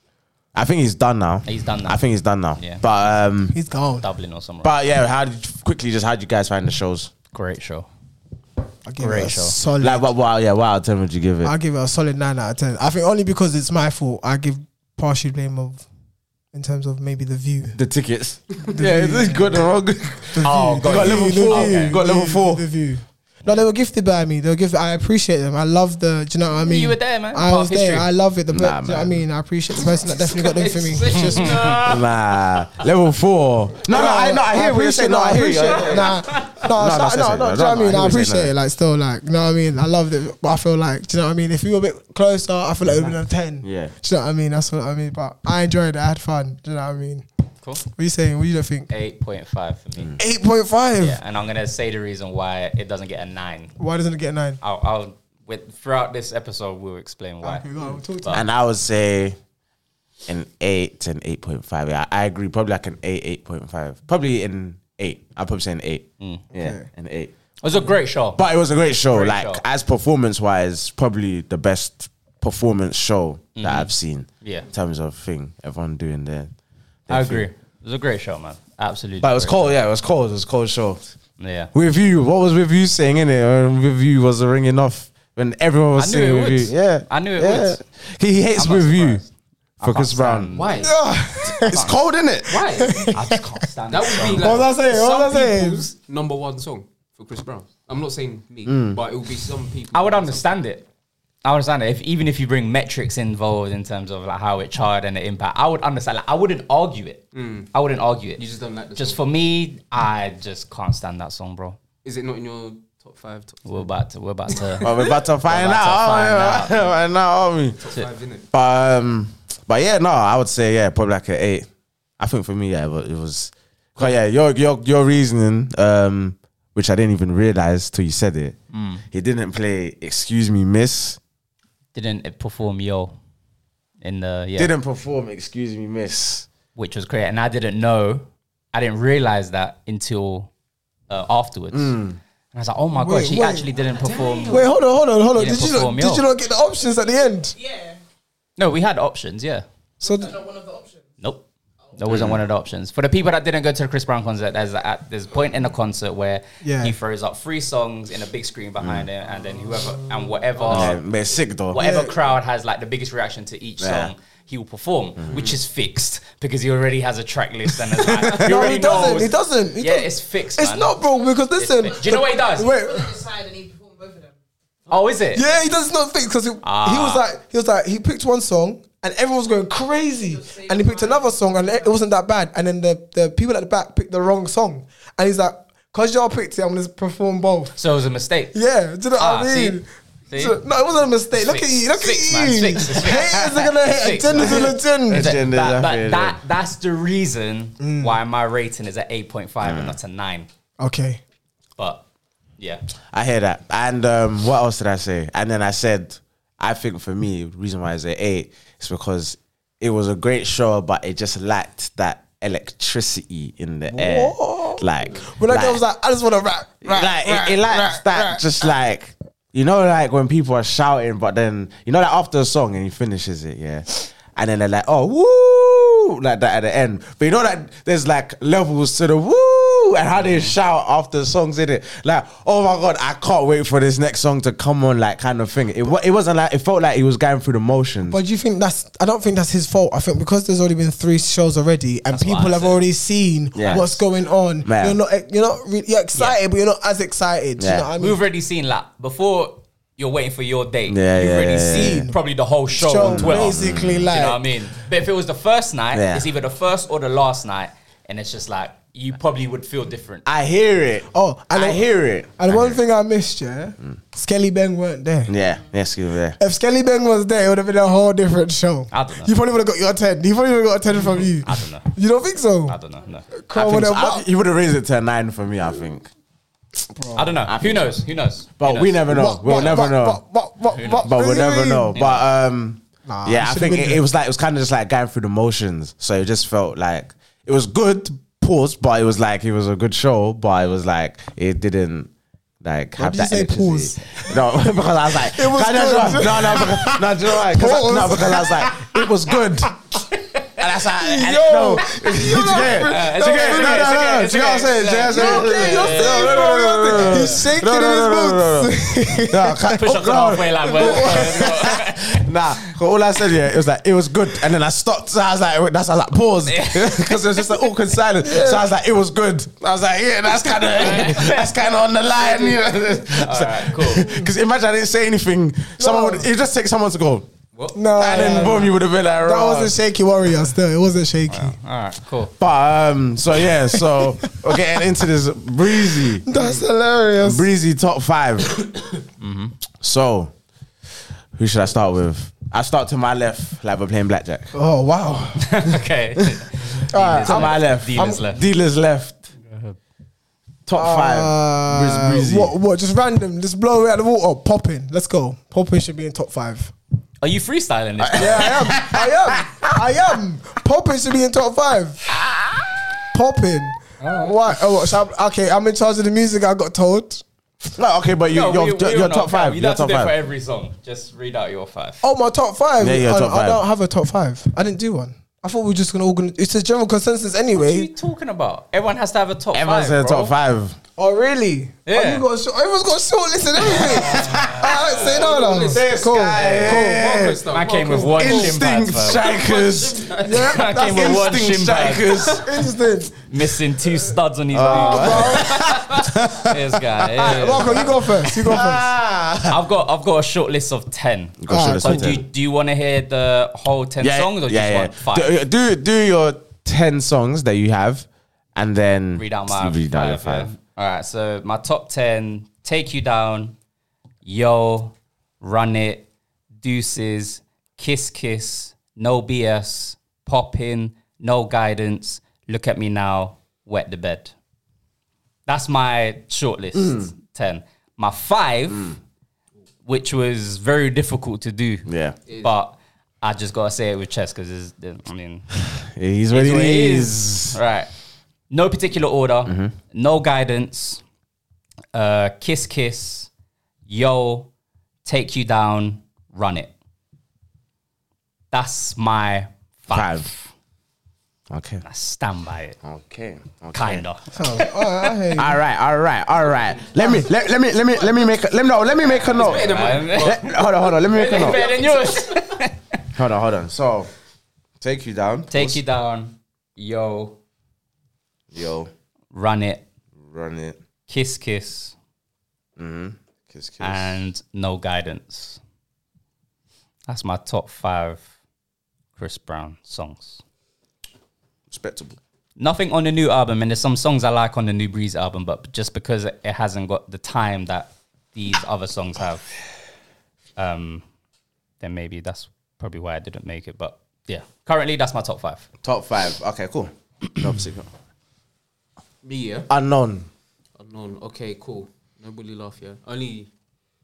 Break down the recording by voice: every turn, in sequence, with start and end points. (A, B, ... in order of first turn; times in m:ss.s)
0:00.5-0:03.6 A
0:01.4-0:02.0 B
0:03.5-0:04.0 C
0:04.0-0:04.7 B
0:04.6-0:07.1 A
0:07.3-0:07.9 B
0:08.8-0:10.1 C
0:09.0-0:09.6 B
0:09.8-0:11.5 A
0:11.4-0:15.8 C
0:16.5-0:17.8 C
0:17.7-0:22.6 A
0:18.6-0:19.6 C
0:20.3-0:31.7 C
0:20.4-0:22.0 B
0:26.6-0:28.1 B
0:28.5-0:29.2 A
0:29.8-0:32.0 D
0:31.1-0:32.0 B
0:31.7-0:38.5 A
0:33.9-0:47.2 C
0:43.6-0:43.9 A
0:47.8-0:48.9 C
0:48.9-0:50.2 B
0:50.2-0:51.2 C
0:51.0-0:53.7 B
0:53.8-0:54.6 C
0:54.6-0:58.4 B
0:57.4-0:58.4 C
0:58.3-0:59.4 A
1:00.3-1:07.3 A
1:06.5-1:06.8 C
1:07.6-1:08.4 B
1:08.3-1:16.5 A
1:09.1-1:09.6 B
1:13.6-1:14.7 B
1:17.1-1:17.5 A
1:17.1-1:19.7 B
1:19.2-1:21.0 A
1:21.4-1:21.7 B
1:21.7-1:29.2 A
1:26.0-1:27.8 B
1:28.6-1:30.9 B
1:29.8-1:30.5 A
1:30.5-1:30.9 D
1:30.8-1:31.9 C
1:31.5-1:32.0 B
1:31.6-1:32.6 A
1:32.5-1:33.1 D
1:32.7-1:33.4 C
1:33.1-1:34.6 B
1:33.9-1:40.5 D
1:34.3-1:35.9 C
1:38.6-1:39.0 A
1:39.9-1:40.8 B
1:41.4-1:48.4 B
1:47.3-1:47.7 D
1:48.4-1:49.2 D
1:49.0-1:51.8 B
1:52.0-1:53.9 D
1:53.6-1:56.9 B
1:54.5-1:55.0 D
1:54.8-1:57.8 A
1:57.8-1:58.5 D
1:58.5-2:01.7 A
2:02.2-2:08.6 A
2:08.7-2:09.0 B
2:09.1-2:11.2 A
2:11.9-2:13.1 B
2:14.0-2:14.7 B
2:14.6-2:16.4 A
2:16.7-2:20.5 B
2:21.1-2:22.0 B
2:21.7-2:22.2 A
2:22.5-2:24.7 B
2:22.9-2:23.7 C
2:23.9-2:24.7 D
2:24.5-2:27.5 C
2:25.3-2:26.2 B
2:27.6-2:27.9 E
2:28.6-2:29.6 B
2:30.0-2:30.4 C
2:30.1-2:31.0 E
2:31.2-2:41.0 B
2:32.1-2:32.4 A
2:36.6-2:37.0 C
2:38.8-2:39.1 A
2:40.6-2:41.0 D
2:40.7-2:41.8 A
2:41.7-2:51.0 B
2:41.7-2:42.2 C
2:43.8-2:44.1 A
2:45.2-2:45.5 A
2:48.0-2:49.2 A
2:48.3-2:53.2 C
2:51.6-2:52.7 B
2:52.6-2:54.3 E
2:54.9-2:55.4 B
2:55.3-3:07.8 C
2:56.6-2:57.2 B
3:00.4-3:01.3 E
3:07.8-3:08.6 B
3:08.5-3:15.4 C
3:09.2-3:09.8 B
3:10.3-3:10.6 B
3:11.3-3:20.5 B
3:14.3-3:16.4 A
3:17.8-3:18.2 C
3:19.6-3:20.0 A
3:20.8-3:21.2 C
3:21.8-3:22.0 B
3:22.6-3:22.8 B
3:23.1-3:35.8 A
3:33.9-3:38.4 C
3:36.8-3:58.2 A
3:50.2-3:50.5 B
3:58.1-4:08.2 C
4:02.1-4:02.8 B
4:03.5-4:04.0 A
4:03.6-4:03.9 B
4:04.6-4:05.0 A
4:07.6-4:07.9 A
4:08.0-4:20.2 B
4:10.9-4:12.1 A
4:11.7-4:12.2 C
4:12.7-4:14.5 C
4:13.0-4:14.1 A
4:15.9-4:16.3 A
4:20.2-4:22.8 A
4:21.1-4:25.3 C
4:25.3-4:26.4 A
4:26.4-4:32.8 C
4:28.9-4:29.3 B
4:31.4-4:31.9 B
4:32.6-4:33.3 B
4:33.3-4:34.3 C
4:33.5-4:36.1 A
4:36.9-4:37.4 C
4:37.1-4:39.8 B
4:37.4-4:38.0 A
4:38.6-4:40.2 A
4:39.1-4:41.9 C
4:40.7-4:42.2 B
4:40.8-4:52.1 A
4:43.0-4:44.0 C
4:52.6-4:59.8 A
4:53.0-4:54.4 C
4:55.1-4:59.1 C
5:00.6-5:27.3 A
5:00.9-5:04.2 C
5:02.8-5:07.4 B
5:05.0-5:09.8 C
5:09.7-5:12.2 B
5:10.7-5:11.5 C
5:16.4-5:17.7 B
5:18.2-5:18.6 C
5:20.4-5:24.1 B
5:24.0-5:24.3 C
5:25.8-5:26.3 C
5:27.5-5:28.6 D
5:27.7-5:31.6 C
5:27.9-5:29.8 A
5:28.2-5:28.6 B
5:31.3-5:32.3 B
5:32.4-5:36.3 A
5:33.7-5:34.7 C
5:35.9-5:37.4 C
5:37.2-5:38.6 A
5:39.2-5:39.6 B
5:39.8-5:40.3 A
5:41.3-5:44.5 A
5:44.5-5:45.6 C
5:45.4-5:48.4 B
5:46.9-5:48.2 C
5:47.2-5:49.2 A
5:49.5-5:49.8 B
5:50.6-5:52.5 A
5:50.7-5:56.7 C
5:57.2-5:58.8 B
5:58.0-5:59.8 A
5:58.1-6:02.0 C
6:03.1-6:07.2 C
6:04.0-6:04.4 B
6:07.8-6:10.1 A
6:08.3-6:12.0 B
6:12.0-6:17.9 C
6:12.8-6:13.6 A
6:17.5-6:20.3 B
6:19.5-6:20.8 A
6:21.0-6:27.1 C
6:21.8-6:22.2 B
6:23.6-6:25.2 B
6:23.7-6:24.8 A
6:24.7-6:30.6 D
6:25.3-6:32.6 A
6:26.4-6:26.8 B
6:27.5-6:29.3 B
6:30.2-6:32.4 B
6:30.2-6:31.2 C
6:32.4-6:33.1 C
6:33.2-6:38.0 B
6:34.5-6:39.6 A
6:34.6-6:35.6 C
6:37.2-6:38.9 C
6:39.5-6:45.3 B
6:41.4-6:42.2 A
6:41.5-6:42.1 C
6:44.0-6:50.5 A
6:49.2-6:53.5 B
6:54.2-6:56.1 B
6:56.6-7:04.3 B
7:05.4-7:08.9 B
7:06.7-7:07.1 A
7:08.7-7:09.0 A
7:09.8-7:11.9 B
7:11.8-7:12.2 A
7:12.3-7:12.5 D
7:12.4-7:15.5 B
7:15.9-7:17.6 A
7:16.3-7:17.9 B
7:18.5-7:21.0 B
7:19.4-7:19.7 A
7:21.9-7:23.3 B
7:23.9-7:24.5 B
7:25.0-7:26.7 B
7:28.5-7:30.4 B
7:29.9-7:30.3 A
7:31.5-7:31.8 A
7:31.8-7:32.8 B
7:32.8-7:34.0 A
7:33.7-7:35.1 B
7:34.3-7:35.6 C
7:35.3-7:41.6 A
7:36.8-7:37.2 D
7:39.0-7:40.4 B
7:39.2-7:42.3 D
7:41.1-7:43.0 B
7:43.1-7:44.1 A
7:44.8-7:45.8 A
7:45.5-7:47.4 B
7:48.5-7:48.9 A
7:49.3-7:49.8 B
7:50.3-7:50.8 A
7:51.1-7:51.9 B
7:52.8-7:54.2 A
7:53.8-7:55.6 B
7:57.1-7:58.2 B
7:59.2-8:00.4 B
8:01.7-8:02.2 A
8:02.6-8:09.5 B
8:10.6-8:11.0 B
8:11.8-8:15.7 B
8:15.8-8:17.9 A
8:19.2-8:19.7 D
8:19.7-8:20.3 A
8:20.8-8:23.5 D